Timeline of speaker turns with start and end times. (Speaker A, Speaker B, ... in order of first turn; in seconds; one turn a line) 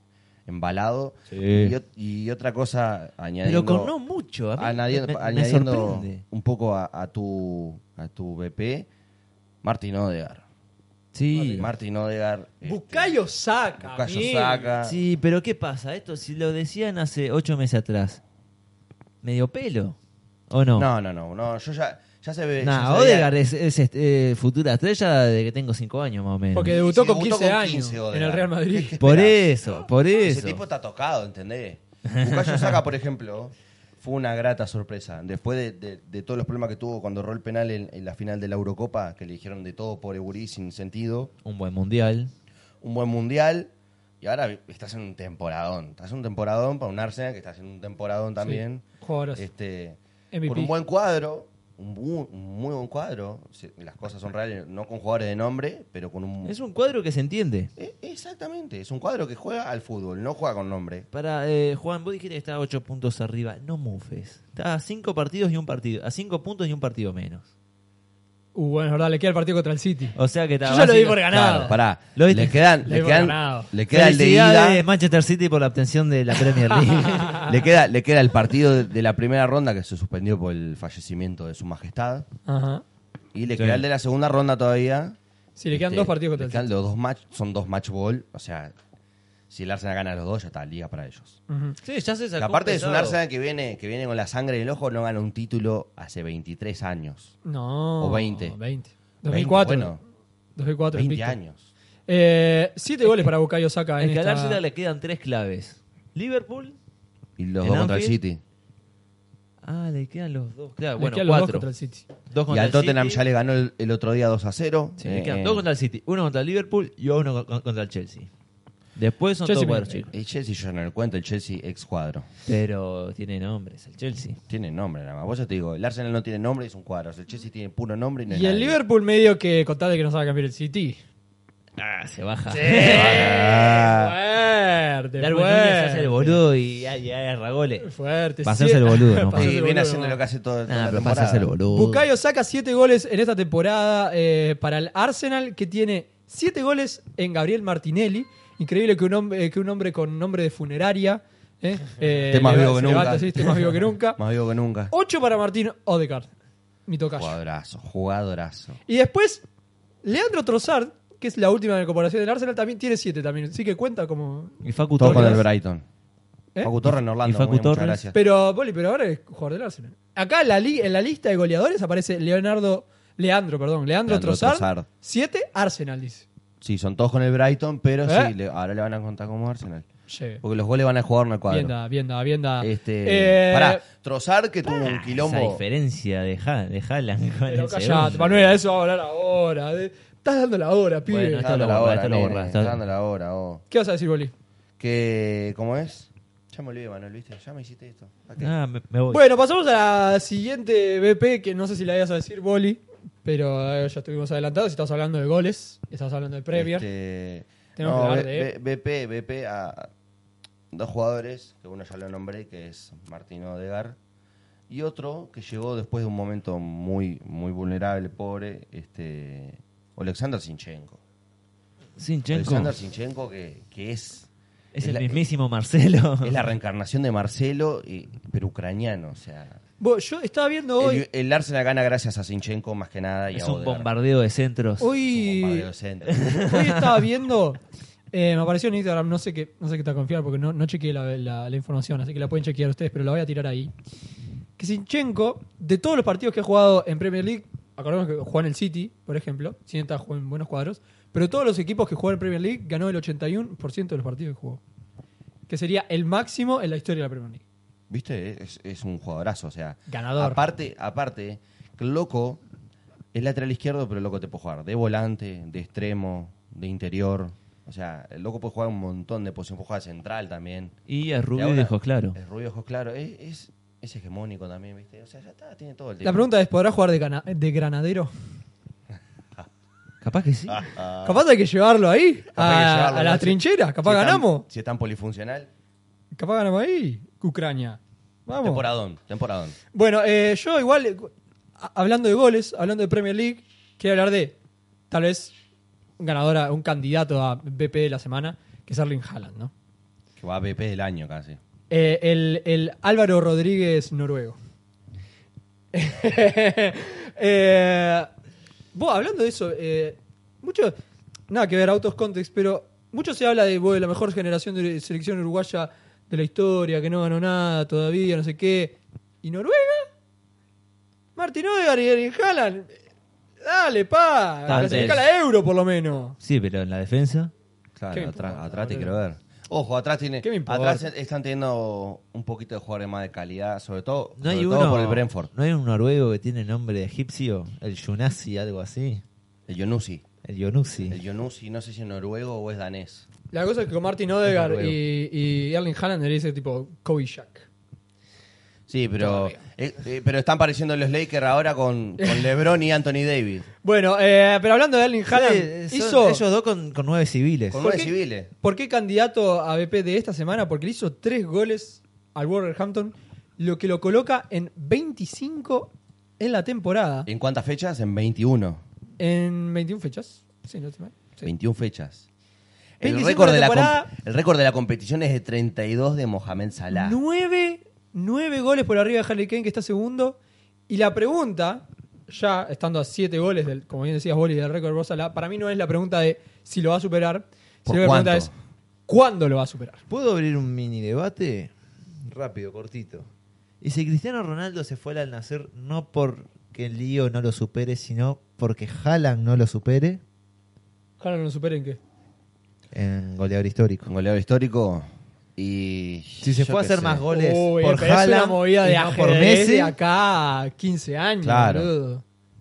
Speaker A: 0.5-3.9
Speaker B: 1.3-1.8
Speaker B: 3.4-6.2
Speaker A: 4.5-8.9
Speaker A: 9.6-10.4
Speaker B: 11.1-11.7
Speaker C: 11.3-11.7
Speaker A: 11.6-13.1
Speaker C: 12.6-14.7
Speaker A: 13.8-15.0
Speaker B: 14.8-18.2
Speaker B: 19.2-20.0
Speaker B: 20.5-20.9
Speaker A: 20.8-23.3
Speaker B: 22.6-26.8
Speaker C: 26.5-28.9
Speaker A: 26.6-41.3
Speaker B: 29.0-30.6
Speaker B: 32.1-32.8
Speaker B: 41.4-42.3
Speaker A: 42.8-48.8
Speaker C: 48.4-49.5
Speaker A: 49.4-56.5
Speaker C: 50.3-50.7
Speaker B: 56.4-57.7
Speaker A: 57.8-61.1
Speaker B: 61.1-67.5
Speaker C: 68.5-71.8
Speaker B: 70.2-72.7
Speaker A: 71.3-74.8
Speaker C: 72.8-73.7
Speaker B: 73.9-77.6
Speaker C: 77.0-77.5
Speaker A: 77.3-82.3
Speaker C: 82.5-82.8
Speaker A: 83.3-85.2
Speaker B: 83.6-83.8
Speaker C: 85.5-86.7
Speaker A: 85.7-88.7
Speaker A: 89.5-91.4
Speaker C: 91.5-91.8
Speaker B: 91.8-93.2
Speaker A: 92.3-97.3
Speaker C: 97.4-100.0
Speaker A: 98.0-98.5
Speaker A: 99.2-100.0
Speaker C: 100.5-101.4
Speaker A: 100.9-101.7
Speaker C: 102.1-104.6
Speaker B: 104.0-106.8
Speaker A: 107.4-108.4
Speaker B: 107.6-108.2
Speaker B: 109.6-111.7
Speaker C: 111.0-112.1
Speaker B: 112.3-113.2
Speaker A: 112.5-115.6
Speaker B: 115.0-118.3
Speaker B: 119.0-120.1
Speaker C: 119.4-120.0
Speaker A: 120.1-122.3
Speaker B: 122.5-124.4
Speaker A: 124.5-128.8
Speaker C: 128.3-131.0
Speaker B: 131.8-133.4
Speaker C: 132.5-136.4
Speaker A: 132.8-134.1
Speaker B: 135.2-137.9
Speaker C: 137.8-140.2
Speaker B: 138.4-139.5
Speaker A: 139.3-141.5
Speaker B: 140.7-142.1
Speaker C: 141.7-154.2
Speaker A: 152.3-154.9
Speaker C: 154.9-156.3
Speaker C: 156.9-157.4
Speaker A: 157.1-158.8
Speaker C: 158.9-159.4
Speaker C: 160.0-165.4
Speaker B: 164.6-165.4
Speaker A: 165.0-165.8
Speaker A: 166.6-168.2
Speaker B: 167.2-168.0
Speaker C: 168.1-176.2
Speaker A: 174.0-174.9
Speaker A: 176.6-179.8
Speaker C: 178.0-178.3
Speaker C: 180.1-180.4
Speaker A: 180.4-181.7
Speaker C: 181.5-183.8
Speaker A: 182.6-185.6
Speaker B: 184.7-188.5
Speaker C: 187.5-191.5
Speaker B: 191.1-192.8
Speaker A: 191.4-193.6
Speaker C: 193.7-194.3
Speaker A: 194.8-198.5
Speaker B: 198.4-199.2
Speaker C: 199.1-206.9
Speaker A: 206.5-209.9
Speaker C: 207.8-208.5
Speaker A: 210.7-214.0
Speaker A: 214.7-221.0
Speaker B: 222.0-222.8
Speaker A: 222.3-224.3
Speaker B: 224.7-226.4
Speaker A: 224.8-225.2
Speaker A: 226.2-229.6
Speaker C: 229.8-231.0
Speaker A: 230.8-233.9
Speaker B: 233.3-234.9
Speaker C: 234.8-235.7
Speaker A: 235.1-236.4
Speaker B: 236.1-236.9
Speaker C: 236.3-237.6
Speaker C: 238.1-243.7
Speaker C: 244.6-254.6
Speaker C: 255.5-257.4
Speaker A: 257.9-262.4
Speaker C: 259.9-260.4
Speaker A: 263.1-270.7
Speaker B: 270.9-272.2
Speaker A: 271.3-276.3
Speaker C: 276.0-278.1
Speaker B: 280.0-280.6
Speaker A: 280.5-281.2
Speaker C: 281.0-284.4
Speaker A: 282.3-285.5
Speaker C: 286.1-288.6
Speaker A: 288.4-289.6
Speaker C: 289.7-294.3
Speaker C: 294.9-295.3
Speaker C: 296.0-299.5
Speaker A: 300.2-301.4
Speaker C: 301.7-304.4
Speaker C: 305.7-308.1
Speaker C: 308.7-310.8
Speaker C: 311.3-319.9
Speaker C: 321.1-322.8
Speaker C: 323.4-326.2
Speaker B: 324.4-325.0
Speaker A: 324.5-325.0
Speaker B: 326.2-327.3
Speaker A: 327.8-335.3
Speaker C: 327.9-329.0
Speaker C: 330.2-330.9
Speaker B: 334.2-339.0
Speaker A: 339.5-340.0
Speaker B: 340.2-341.0
Speaker A: 340.9-343.1
Speaker C: 343.3-347.4
Speaker A: 344.3-344.8
Speaker A: 348.7-353.5
Speaker C: 349.0-349.4
Speaker C: 353.6-356.2
Speaker B: 355.1-357.6
Speaker A: 357.5-358.3
Speaker C: 357.6-367.1
Speaker A: 367.1-368.6
Speaker C: 369.0-371.3
Speaker A: 371.2-372.0
Speaker A: 372.8-377.0
Speaker C: 372.8-373.9
Speaker C: 376.7-380.2
Speaker C: 380.7-388.3
Speaker A: 387.6-388.3
Speaker C: 388.9-389.8
Speaker B: 389.9-393.1
Speaker B: 393.6-400.0
Speaker C: 401.0-401.8
Speaker B: 402.7-403.9
Speaker A: 403.9-407.1
Speaker B: 406.2-409.7
Speaker C: 407.1-412.0
Speaker A: 411.2-411.7